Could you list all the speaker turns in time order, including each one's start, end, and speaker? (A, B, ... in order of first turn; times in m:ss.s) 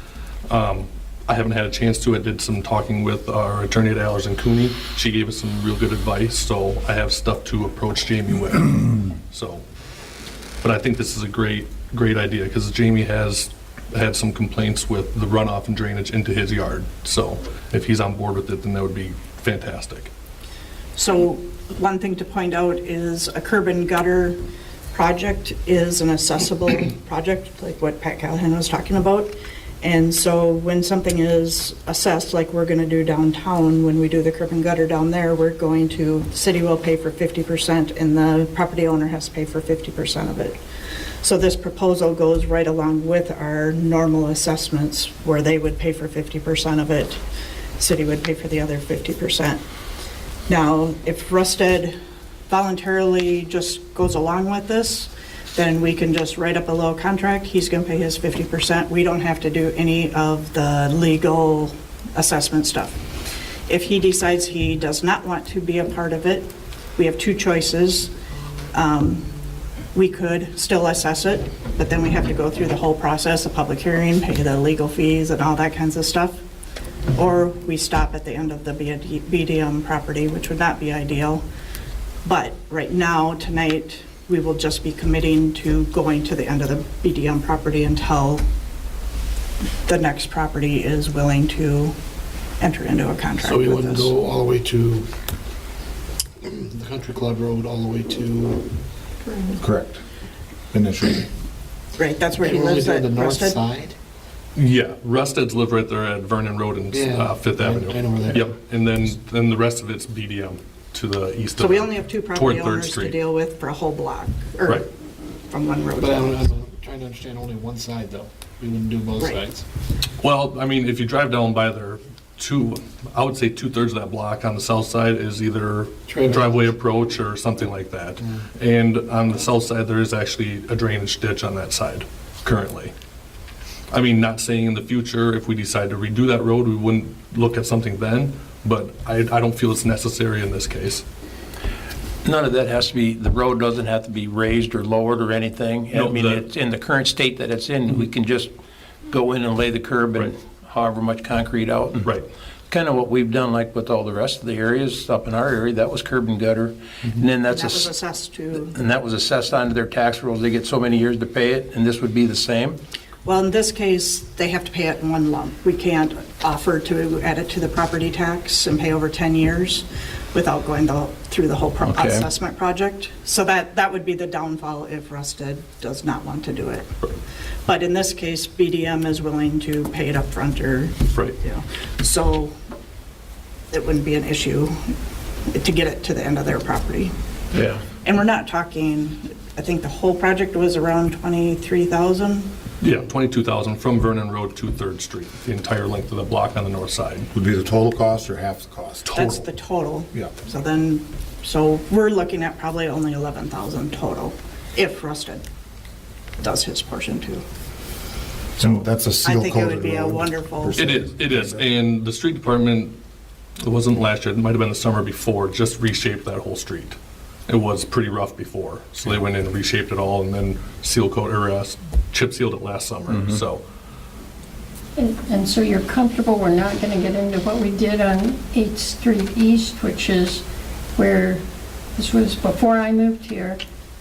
0:00.5-0:09.6 A
0:10.6-0:20.1 A
0:21.0-0:24.4 B
0:24.9-0:40.6 B
0:41.2-0:47.2 B
0:47.8-0:49.6 B
0:50.5-0:52.0 B
0:52.5-1:03.1 B
1:03.7-1:08.1 B
1:08.7-1:09.3 B
1:09.9-1:16.4 B
1:17.1-1:21.4 B
1:22.2-1:28.4 B
1:29.9-1:32.0 B
1:32.6-1:34.1 B
1:33.4-1:35.1 C
1:36.4-1:38.8 C
1:39.3-1:39.6 B
1:39.6-1:40.0 D
1:40.7-1:41.3 D
1:42.0-1:43.6 B
1:42.4-1:44.0 C
1:44.6-1:53.2 A
1:46.9-1:48.6 C
1:51.6-1:54.9 B
1:55.5-1:56.4 B
1:56.0-1:59.6 C
2:00.2-2:12.9 A
2:06.1-2:06.7 C
2:13.9-2:21.0 A
2:22.2-2:28.5 E
2:25.9-2:26.4 A
2:29.1-2:32.1 E
2:32.0-2:32.3 A
2:32.7-2:37.9 E
2:37.5-2:38.8 B
2:38.7-2:42.8 E
2:43.2-2:56.9 B
2:51.8-2:52.3 E
2:57.7-3:02.5 B
3:01.1-3:01.4 A
3:03.7-3:05.0 B
3:05.5-3:07.1 B
3:07.5-3:07.8 E
3:08.0-3:12.5 B
3:12.8-3:17.3 A
3:17.3-3:19.1 D
3:19.0-3:19.4 A
3:19.1-3:25.4 B
3:26.4-3:27.4 B
3:28.6-3:31.6 D
3:29.2-3:30.9 B
3:30.8-3:33.0 A
3:33.6-3:43.6 A
3:43.1-3:43.4 E
3:45.0-3:50.4 F
3:51.0-3:51.4 F
3:52.0-3:53.6 F